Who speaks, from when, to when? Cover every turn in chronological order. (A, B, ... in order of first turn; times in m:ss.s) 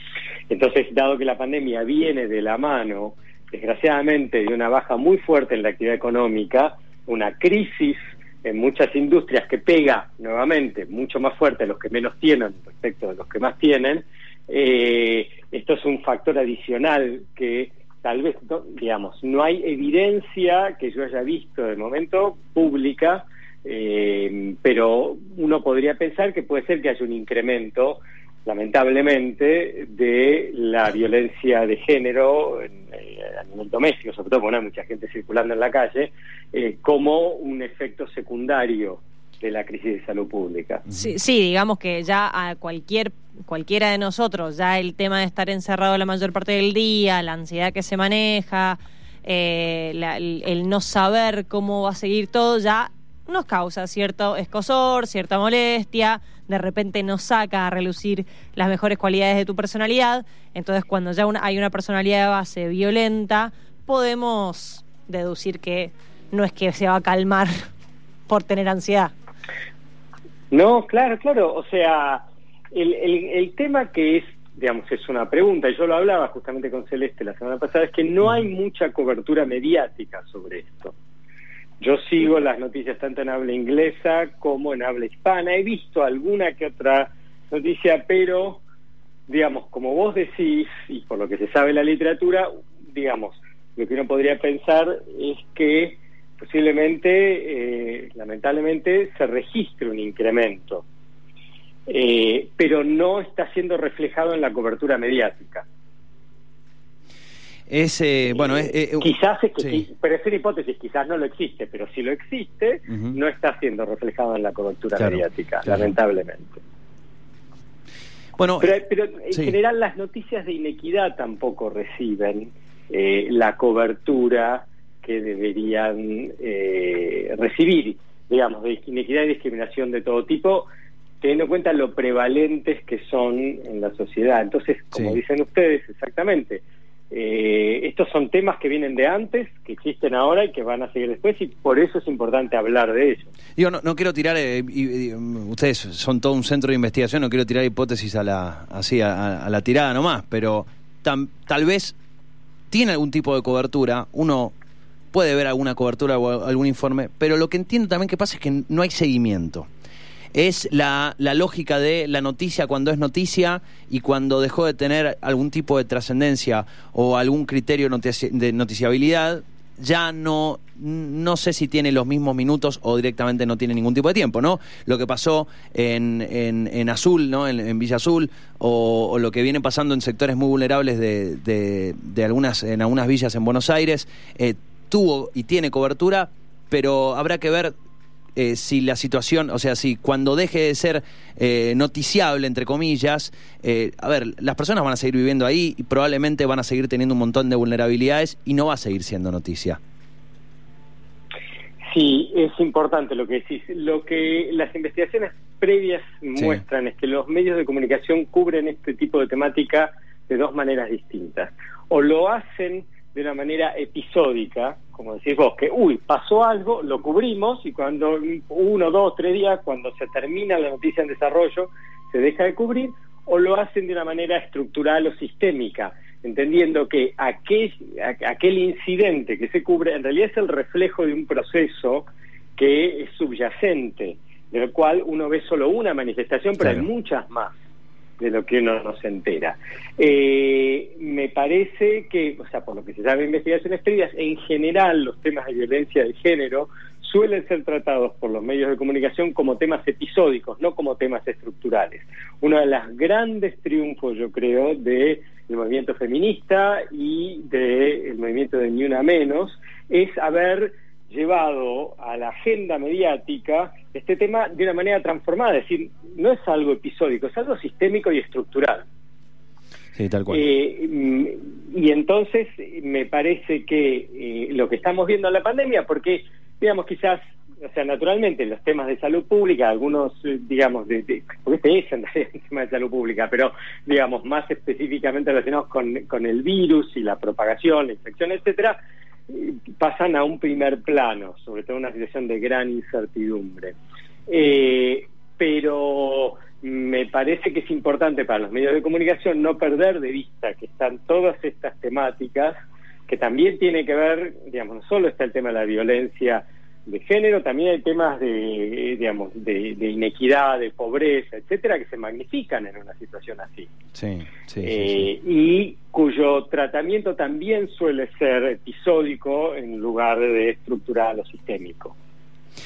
0:00.5-0:40.8 A
0:40.9-1:07.7 B
1:08.3-1:09.1 B
1:10.5-1:20.9 A
1:21.8-1:28.6 A
1:29.3-1:40.8 A
1:41.9-1:45.7 A
1:47.7-1:49.9 C
1:48.3-1:56.6 A
1:52.9-1:53.2 C
1:55.0-1:55.9 C
1:58.4-1:58.7 C
1:58.6-2:10.7 A
2:11.2-2:23.3 A
2:23.6-2:32.0 C
2:32.7-2:34.5 C
2:35.1-2:39.7 C
2:40.3-3:07.7 C
3:08.4-3:19.8 C
3:21.9-3:57.6 A
3:58.2-4:28.9 A
4:30.0-4:30.4 C
4:30.3-4:48.8 A
4:49.3-4:53.8 A
4:54.3-5:02.6 A
5:03.1-5:13.7 A
5:13.9-5:15.1 C
5:14.6-5:22.0 A